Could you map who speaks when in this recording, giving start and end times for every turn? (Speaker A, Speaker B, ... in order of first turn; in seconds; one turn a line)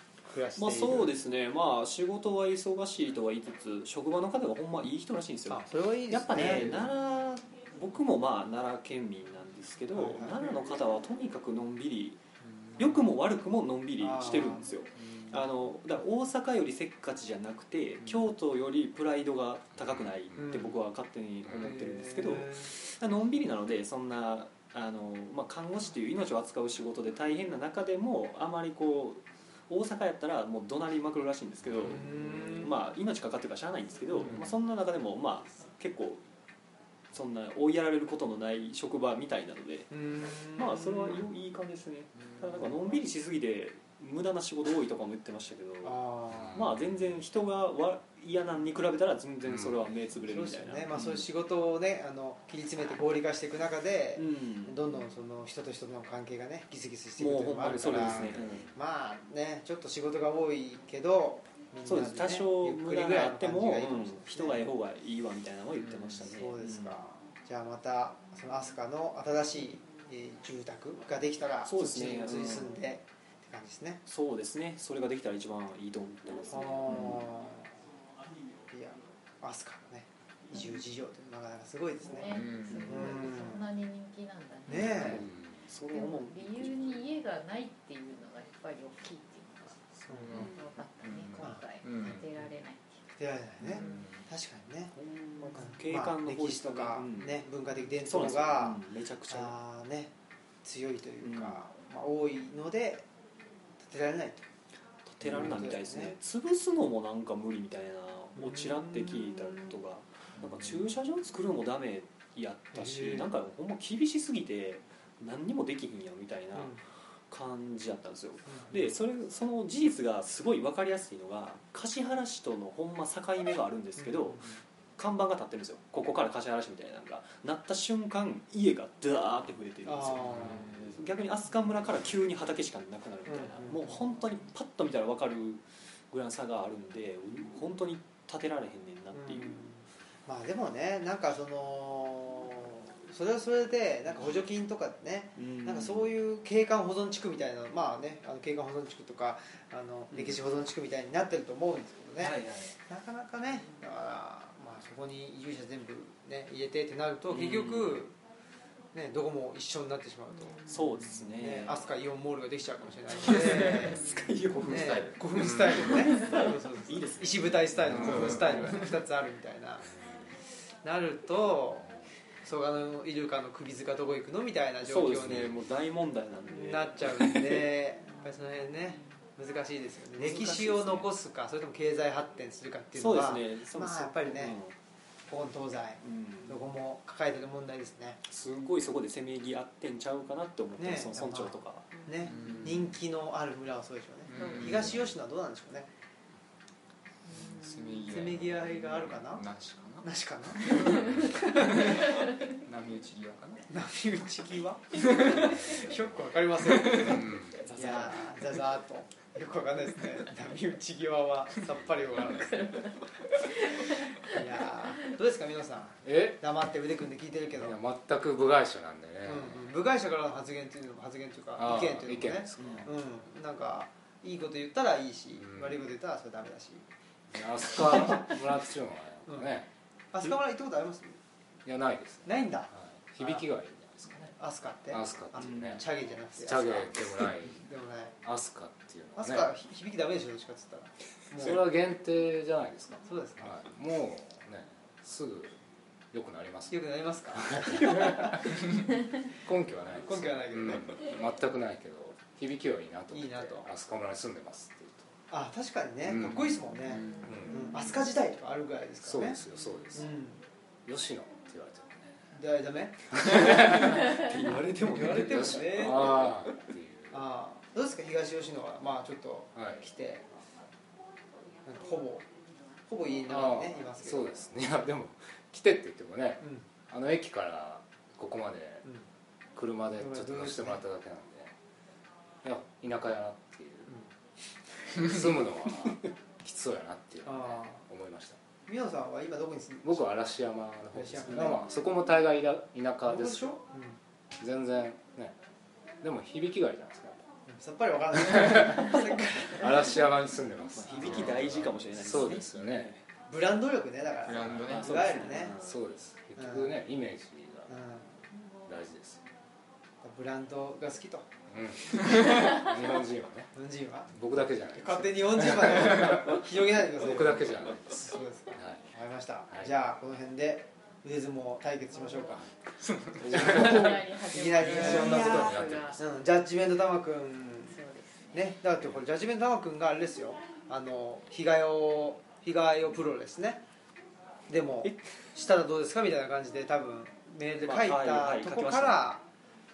Speaker A: 0.2-1.1
Speaker B: 0.6-12.2
Speaker A: 5.5-6.9
Speaker A: 9.9-10.4
Speaker B: 12.8-36.2
Speaker A: 14.0-14.7
Speaker A: 20.4-20.7
Speaker A: 21.6-22.7
Speaker A: 31.8-32.7
Speaker B: 37.1-39.9
Speaker A: 39.9-41.2
Speaker B: 40.5-51.3
Speaker A: 45.8-46.6
Speaker C: 46.3-47.0
Speaker C: 49.5-49.9
Speaker A: 50.3-64.7
Speaker B: 54.2-54.8
Speaker B: 57.2-58.7
Speaker B: 61.9-67.0
Speaker A: 66.2-74.0
Speaker B: 71.6-72.8
Speaker B: 74.1-77.2
Speaker A: 76.5-77.7
Speaker A: 78.7-82.3
Speaker D: 82.0-85.2
Speaker E: 82.3-83.0
Speaker A: 82.8-83.7
Speaker A: 84.7-85.2
Speaker B: 84.7-86.8
Speaker D: 85.9-93.0
Speaker E: 90.1-92.2
Speaker B: 90.3-90.7
Speaker A: 93.2-100.1
Speaker B: 93.7-94.0
Speaker B: 94.9-97.5
Speaker B: 98.0-99.6
Speaker A: 100.6-103.1
Speaker B: 101.2-101.6
Speaker A: 103.8-104.5
Speaker B: 105.1-116.8
Speaker A: 105.2-106.1
Speaker A: 108.4-109.2
Speaker A: 112.8-113.2
Speaker B: 117.3-139.6
Speaker A: 118.5-118.8
Speaker A: 124.0-124.6
Speaker A: 129.9-130.7
Speaker A: 133.3-134.1
Speaker A: 139.1-158.2
Speaker B: 145.4-146.1
Speaker B: 150.1-150.4
Speaker B: 152.2-152.8
Speaker B: 157.3-158.1
Speaker A: 158.9-160.6
Speaker D: 160.4-161.1
Speaker B: 160.7-161.8
Speaker A: 161.4-164.0
Speaker B: 163.2-168.9
Speaker E: 164.6-166.0
Speaker A: 164.7-169.8
Speaker E: 167.9-168.8
Speaker A: 170.8-171.9
Speaker A: 172.4-175.6
Speaker B: 174.8-177.7
Speaker A: 176.5-184.6
Speaker B: 180.2-181.1
Speaker B: 182.9-184.8
Speaker A: 185.3-188.2
Speaker B: 186.0-186.7
Speaker B: 188.3-191.9
Speaker A: 190.8-195.9
Speaker D: 191.9-192.3
Speaker E: 192.3-192.9
Speaker E: 194.3-195.1
Speaker D: 194.4-194.7
Speaker D: 197.3-198.0
Speaker E: 197.6-203.6
Speaker A: 198.1-199.5
Speaker A: 200.0-202.0
Speaker A: 203.7-212.9
Speaker E: 205.0-205.5
Speaker C: 207.0-207.6
Speaker B: 207.6-208.4
Speaker D: 212.3-213.0
Speaker A: 214.3-217.8
Speaker C: 216.1-216.4
Speaker C: 217.5-219.8
Speaker A: 219.2-226.8
Speaker C: 221.6-222.9
Speaker B: 222.6-222.8
Speaker C: 225.4-225.9
Speaker C: 227.3-229.7
Speaker A: 230.1-231.2
Speaker C: 231.7-234.3
Speaker A: 232.3-233.5
Speaker A: 234.4-238.2
Speaker C: 234.9-237.6
Speaker C: 238.2-239.6
Speaker A: 239.2-241.7
Speaker C: 241.3-245.6
Speaker A: 243.1-243.6
Speaker C: 246.1-248.8
Speaker A: 246.7-248.6
Speaker C: 249.4-255.1
Speaker A: 250.1-251.0
Speaker A: 253.1-253.7
Speaker A: 255.3-259.4
Speaker C: 256.0-257.9
Speaker C: 259.0-260.1
Speaker A: 259.9-260.4
Speaker C: 260.9-262.1
Speaker A: 262.3-264.1
Speaker C: 263.2-264.1
Speaker B: 263.3-266.5
Speaker A: 264.8-266.4
Speaker C: 264.9-267.2
Speaker A: 267.1-270.3
Speaker C: 269.6-269.8
Speaker A: 271.6-272.3
Speaker A: 272.9-274.4
Speaker C: 273.3-278.9
Speaker C: 279.6-281.5
Speaker A: 280.0-280.8
Speaker C: 282.4-283.9
Speaker C: 284.9-288.4
Speaker A: 287.2-287.8
Speaker A: 288.7-290.1
Speaker C: 289.8-293.6
Speaker A: 290.9-291.7
Speaker A: 293.1-294.0
Speaker C: 294.4-295.4
Speaker C: 296.0-297.2
Speaker A: 297.5-300.0
Speaker C: 298.1-302.9
Speaker B: 300.7-303.0
Speaker A: 300.9-301.5
Speaker A: 303.3-305.6
Speaker E: 304.2-305.1
Speaker C: 304.3-304.7
Speaker B: 304.7-305.8
Speaker C: 305.5-307.8
Speaker A: 306.4-306.7
Speaker A: 307.7-308.1
Speaker C: 308.7-309.2
Speaker A: 310.0-311.3
Speaker C: 311.5-313.5
Speaker A: 312.0-312.4
Speaker A: 313.6-322.5
Speaker C: 314.1-318.8
Speaker D: 322.1-322.4
Speaker E: 322.7-323.9
Speaker B: 323.2-324.0
Speaker C: 323.3-323.7
Speaker D: 323.4-326.0
Speaker A: 324.3-327.8
Speaker C: 324.6-326.0
Speaker B: 324.8-325.2
Speaker D: 327.6-328.4
Speaker A: 328.3-333.6
Speaker A: 334.5-339.2
Speaker B: 334.8-335.1
Speaker B: 337.6-339.1